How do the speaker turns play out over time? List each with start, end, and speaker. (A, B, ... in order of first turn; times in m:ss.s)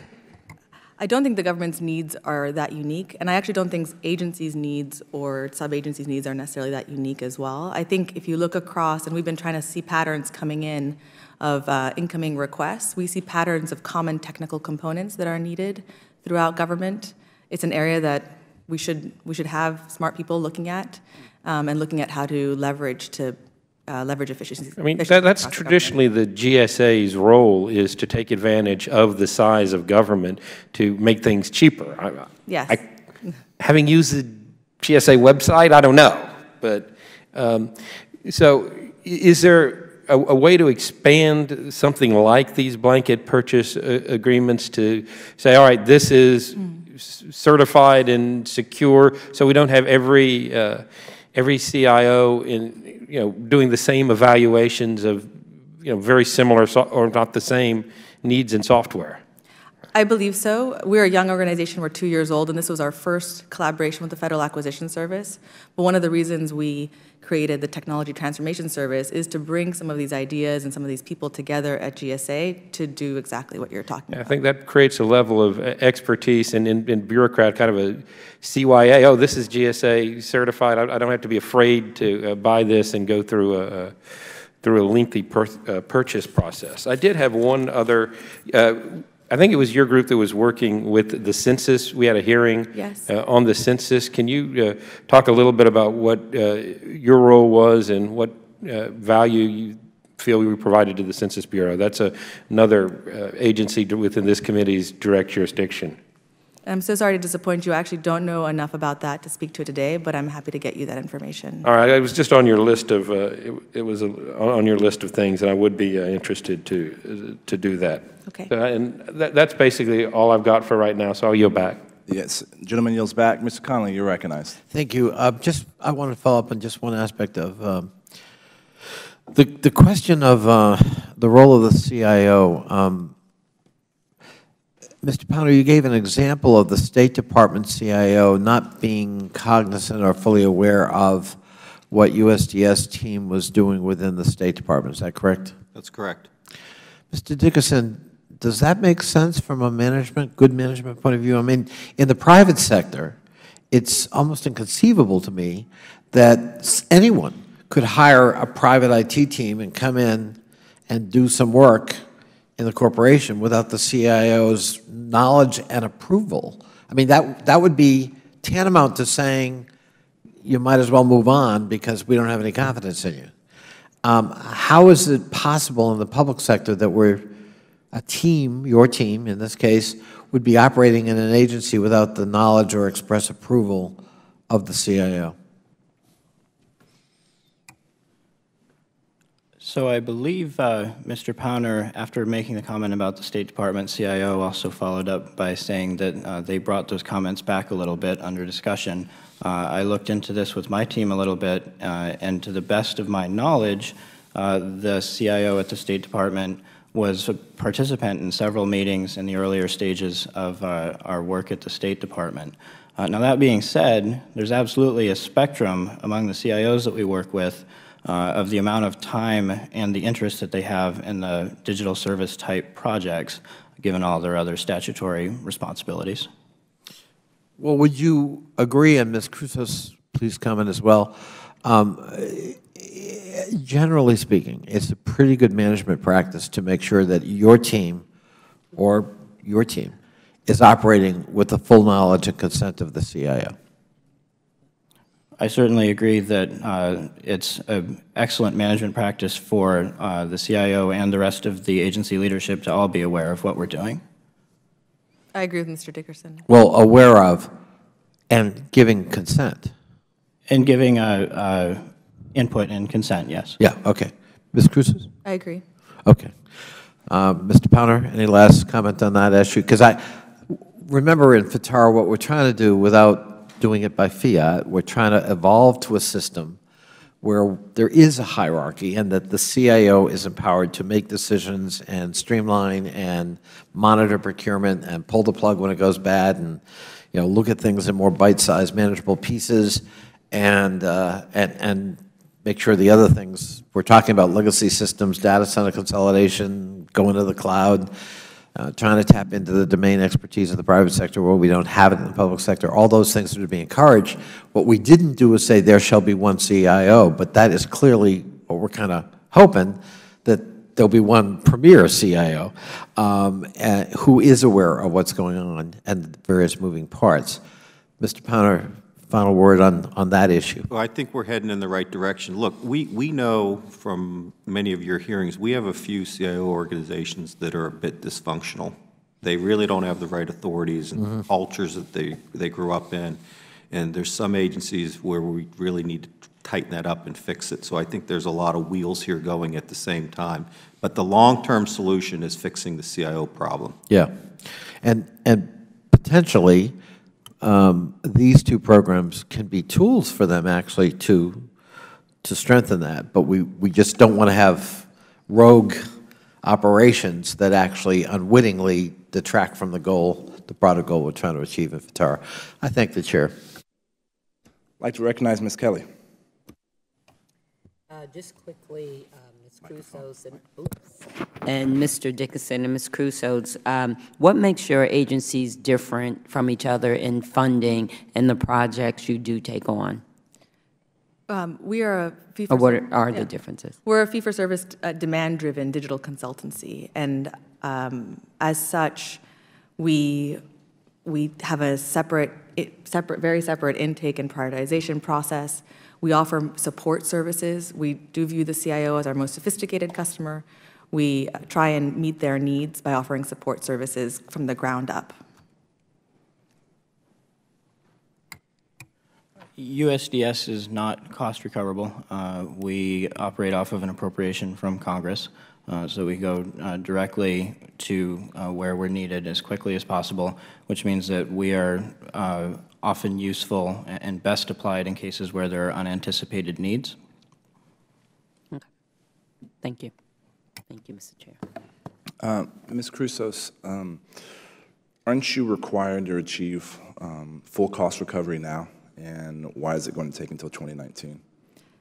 0:01.0-0:25.9 A
0:24.8-0:32.8 B
0:32.5-0:32.8 A
0:33.6-0:59.2 B
0:59.9-1:14.4 A
1:14.1-1:24.0 B
1:24.6-1:46.0 B
1:32.7-1:33.1 A
1:46.6-1:51.7 A
1:51.6-2:01.8 B
2:02.1-2:04.6 C
2:04.7-2:07.9 D
2:09.3-2:13.1 D
2:15.0-2:21.4 D
2:21.9-2:25.6 D
2:25.7-2:26.3 E
2:27.1-2:33.2 D
2:33.7-2:40.4 D
2:40.9-2:42.0 D
2:42.6-2:49.7 D
2:50.4-2:53.3 D
2:54.0-2:57.3 D
2:57.9-3:05.3 D
3:09.6-3:46.3 F
3:47.6-3:58.0 D
3:58.7-4:03.6 D
4:05.4-4:14.0 F
4:15.3-4:16.4 A
4:16.5-4:17.5 D
4:18.3-4:19.7 D
4:20.5-4:23.6 F
4:23.6-4:25.1 D
4:25.2-4:25.6 A
4:26.0-4:26.4 D
4:27.1-4:36.6 D
4:37.2-4:46.6 D
4:47.1-4:57.9 D
4:58.5-5:17.4 D
5:18.0-5:20.7 D
5:20.7-5:33.2 E
5:33.7-5:43.8 E
5:44.8-5:46.8 D
5:47.4-5:51.5 D
5:52.2-5:55.9 D
5:56.4-6:03.4 D
6:04.8-6:05.9 C
6:07.9-6:10.8 G
6:11.4-6:20.0 G
6:21.3-6:23.3 A
6:22.5-6:23.7 G
6:23.8-6:29.2 A
6:29.8-6:30.4 A
6:31.0-6:45.2 A
6:49.6-7:07.0 F
7:09.6-7:09.9 G
7:10.7-7:11.4 G
7:12.2-7:14.0 C
7:15.0-7:21.2 C